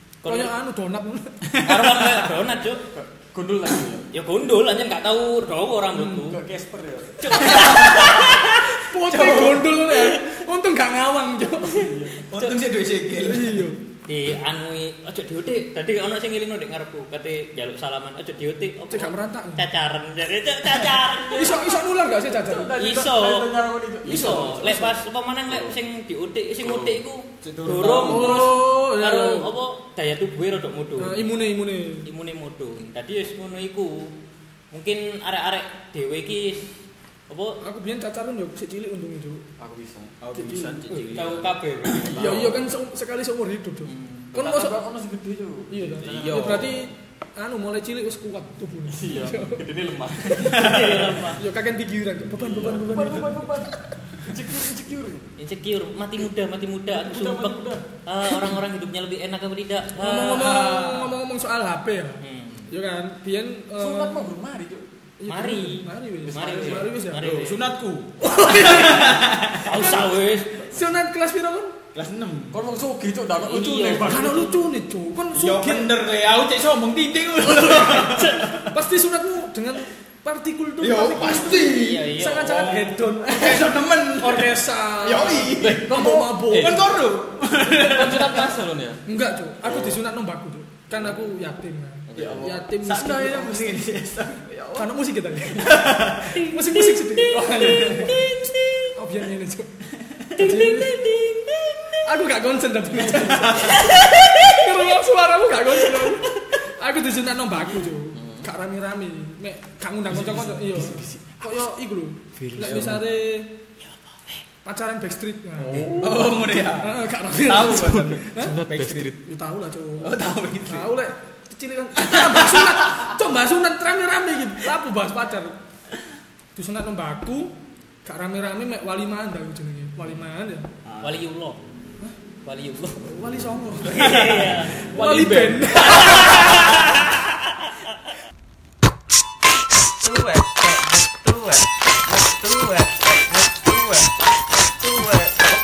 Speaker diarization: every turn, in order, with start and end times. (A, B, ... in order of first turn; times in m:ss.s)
0:00.2-0:00.5 A
0:00.2-0:01.4 B
0:01.5-0:02.3 C
0:01.6-0:02.8 A
0:02.9-0:04.1 D
0:04.1-0:06.4 A
0:05.9-0:06.2 B
0:06.2-0:07.6 D
0:07.2-0:08.8 A
0:07.4-0:11.9 B
0:07.6-0:08.2 C
0:09.0-0:09.8 C
0:11.7-0:12.2 D
0:11.8-0:12.6 A
0:12.2-0:13.7 C
0:13.2-0:13.8 B
0:14.0-0:21.8 A
0:18.9-0:19.6 B
0:21.3-0:22.7 B
0:22.3-0:24.8 D
0:22.8-0:23.5 A
0:24.0-0:31.3 A
0:24.1-0:24.9 B
0:25.5-0:25.8 D
0:26.6-0:27.0 D
0:27.4-0:28.5 C
0:28.0-0:29.5 B
0:31.0-0:32.1 B
0:32.0-0:34.1 A
0:34.7-0:36.7 A
0:37.3-0:37.6 A
0:37.6-0:39.4 B
0:39.6-0:40.1 D
0:40.2-0:41.5 C
0:40.3-0:40.8 B
0:40.9-0:42.5 A
0:42.1-0:42.6 D
0:42.1-0:44.8 B
0:43.8-0:44.3 A
0:44.3-0:46.9 D
0:45.7-0:49.6 B
0:48.9-0:50.9 D
0:50.4-0:51.1 C
0:50.4-0:51.4 A
0:51.4-0:53.6 B
0:52.4-0:55.3 D
0:55.4-1:00.8 A
0:56.9-0:57.8 D
1:00.0-1:04.2 B
1:00.5-1:01.1 C
1:02.2-1:02.6 A
1:03.8-1:04.9 D
1:05.2-1:07.3 B
1:05.3-1:07.6 A
1:06.2-1:06.9 D
1:07.2-1:09.7 C
1:08.2-1:11.7 B
1:09.6-1:10.7 A
1:11.9-1:12.6 C
1:12.5-1:14.3 D
1:13.4-1:14.6 A
1:14.0-1:15.9 B
1:15.3-1:18.7 C
1:17.6-1:18.1 B
1:17.9-1:18.5 A
1:18.7-1:26.9 B
1:20.8-1:26.0 C
1:21.2-1:22.7 A
1:25.5-1:26.9 D
1:26.5-1:28.5 C
1:27.6-1:29.0 D
1:29.0-1:33.9 B
1:29.6-1:30.0 D
1:32.1-1:32.6 D
1:32.1-1:34.8 C
1:34.8-1:39.7 B
1:35.4-1:36.4 C
1:36.3-1:38.9 A
1:37.3-1:38.2 C
1:40.3-1:41.0 B
1:40.3-1:42.1 A
1:42.0-1:53.5 B
1:43.0-1:43.9 C
1:43.4-1:44.9 A
1:45.8-1:46.6 A
1:48.1-1:48.5 D
1:50.1-1:51.5 D
1:52.4-1:53.0 D
1:53.8-1:54.4 A
1:54.6-1:55.9 B
1:55.6-1:56.4 D
1:55.9-1:59.2 C
1:56.7-1:58.6 B
1:57.9-1:59.2 D
1:59.2-2:05.5 B
2:00.0-2:00.9 C
2:02.0-2:03.1 C
2:06.6-2:07.5 B
2:08.0-2:10.7 B
2:10.8-2:11.2 C
2:11.0-2:11.6 A
2:12.4-2:13.0 A
2:13.0-2:14.2 B
2:13.8-2:14.8 A
2:13.9-2:16.8 C
2:14.8-2:16.7 B
2:15.8-2:17.9 A
2:20.0-2:24.1 C
2:24.8-2:25.4 C